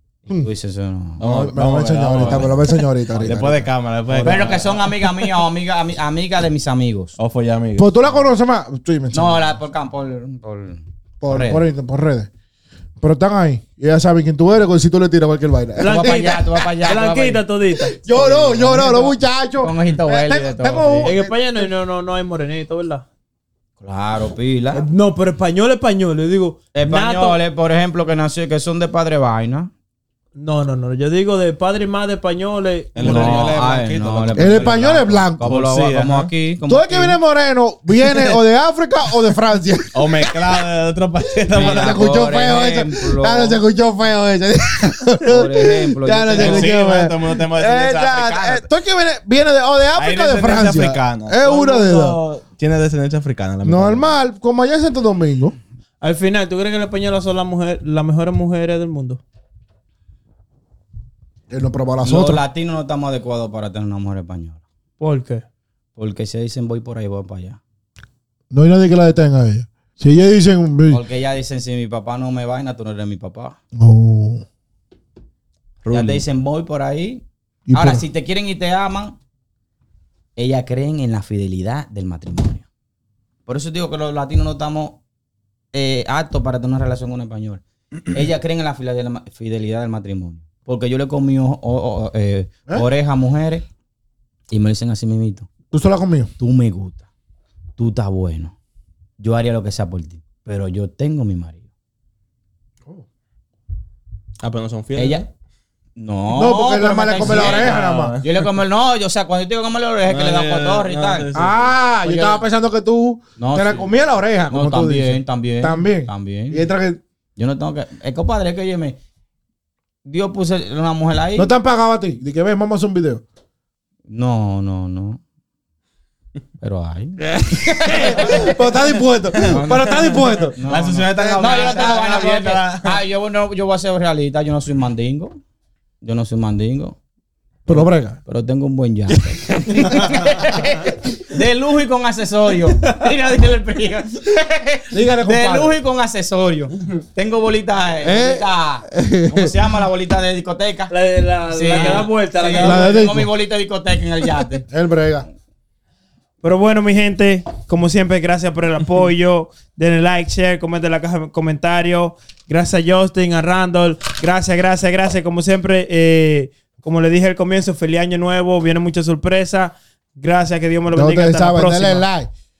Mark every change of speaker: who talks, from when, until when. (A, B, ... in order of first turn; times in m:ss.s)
0:00.2-0:01.2 A
0:01.2-0:02.5 B
0:01.2-0:04.8 C
0:02.2-0:02.5 A
0:03.1-0:04.7 B
0:04.2-0:07.1 A
0:07.2-0:07.9 B
0:07.8-0:09.4 C
0:09.1-0:11.6 A
0:11.2-0:12.3 C
0:13.0-0:16.4 C
0:15.8-0:18.0 D
0:15.8-0:17.4 A
0:17.7-0:21.7 C
0:18.1-0:21.1 A
0:21.0-0:23.0 D
0:23.8-0:24.8 A
0:24.7-0:27.4 D
0:26.7-0:29.7 A
0:30.3-0:33.5 D
0:32.9-0:36.3 B
0:33.0-0:37.2 A
0:34.4-0:35.5 C
0:36.7-0:40.4 C
0:39.9-0:42.4 B
0:41.5-0:52.2 C
0:41.5-0:43.6 A
0:45.2-0:46.7 A
0:46.3-0:48.6 B
0:50.0-0:54.1 B
0:53.6-0:55.6 C
0:56.0-0:59.2 D
1:01.5-1:02.4 C
1:02.0-1:04.6 A
1:05.0-1:05.4 D
1:05.9-1:07.6 A
1:08.5-1:11.0 C
1:10.9-1:13.6 A
1:13.8-1:14.4 C
1:15.8-1:16.2 B
1:15.9-1:19.2 A
1:17.7-1:18.0 C
1:20.4-1:22.6 A
1:23.4-1:25.0 A
1:25.7-1:33.6 A
1:34.5-1:35.5 A
1:35.7-1:36.3 C
1:36.4-1:37.0 A
1:37.8-1:38.5 A
1:39.2-1:41.6 A
1:44.4-1:45.2 B
1:44.9-1:45.2 A
1:46.0-1:51.2 A
1:46.3-1:48.2 C
1:47.2-1:48.5 B
1:50.1-1:52.4 B
1:51.3-1:57.0 C
1:53.4-1:53.9 A
1:54.5-1:56.6 A
1:57.4-1:59.0 A
2:00.0-2:01.5 A
2:01.4-2:03.2 C
2:04.1-2:05.2 A
2:06.6-2:08.6 A
2:07.3-2:11.9 C
2:09.4-2:15.4 A
2:10.6-2:13.0 B
2:16.0-2:17.0 A
2:17.7-2:18.2 C
2:17.7-2:30.9 A
2:19.1-2:20.9 C
2:24.9-2:25.7 C
2:28.0-2:29.5 C
2:30.9-2:33.0 D
2:31.5-2:34.7 A
2:31.7-2:32.0 B
2:32.6-2:33.3 C
2:34.7-2:35.2 C
2:36.4-2:52.0 D
2:50.9-2:52.3 C